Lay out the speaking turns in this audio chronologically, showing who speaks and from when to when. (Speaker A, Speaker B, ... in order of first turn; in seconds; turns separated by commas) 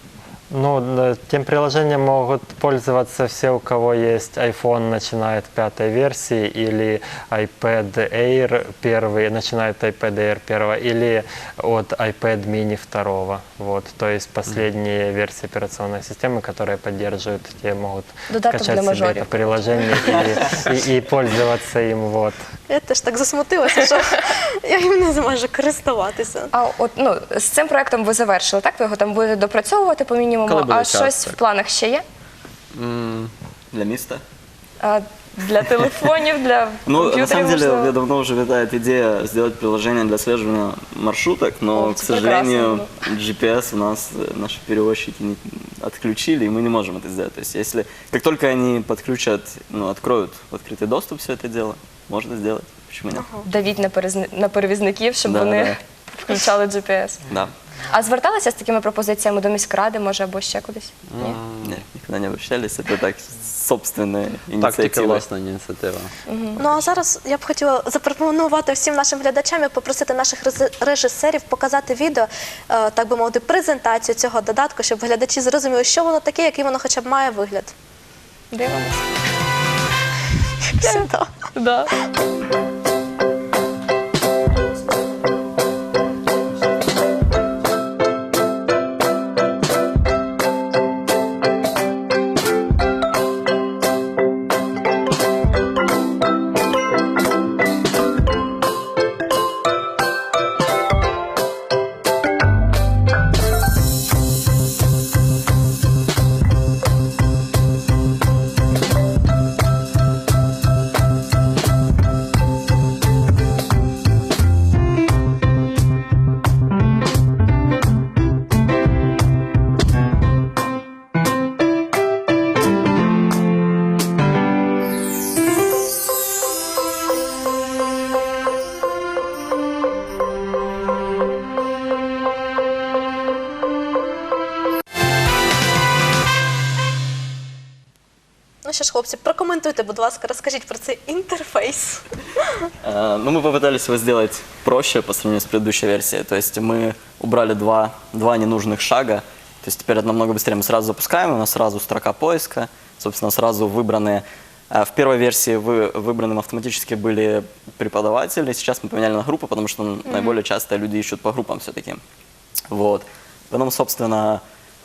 Speaker A: 0.5-22.4, Speaker B: 18.3-19.3, Speaker C: 22.7-26.5, Speaker B: 26.5-32.0, Speaker D: 30.4-31.4, Speaker D: 32.7-33.3, Speaker E: 33.7-34.2, Speaker B: 34.8-37.9, Speaker E: 36.9-53.2, Speaker B: 41.7-42.9, Speaker C: 53.1-53.5, Speaker B: 53.4-57.2, Speaker E: 55.2-55.8, Speaker B: 57.9-61.4, Speaker D: 61.1-61.8, Speaker E: 61.6-65.2, Speaker D: 64.5-66.1, Speaker B: 66.3-66.6, Speaker C: 66.6-77.7, Speaker B: 78.5-79.0, Speaker C: 80.6-81.3, Speaker B: 80.8-81.9, Speaker C: 138.6-142.5, Speaker E: 142.8-162.0, Speaker B: 160.1-160.4, Speaker E: 162.7-164.4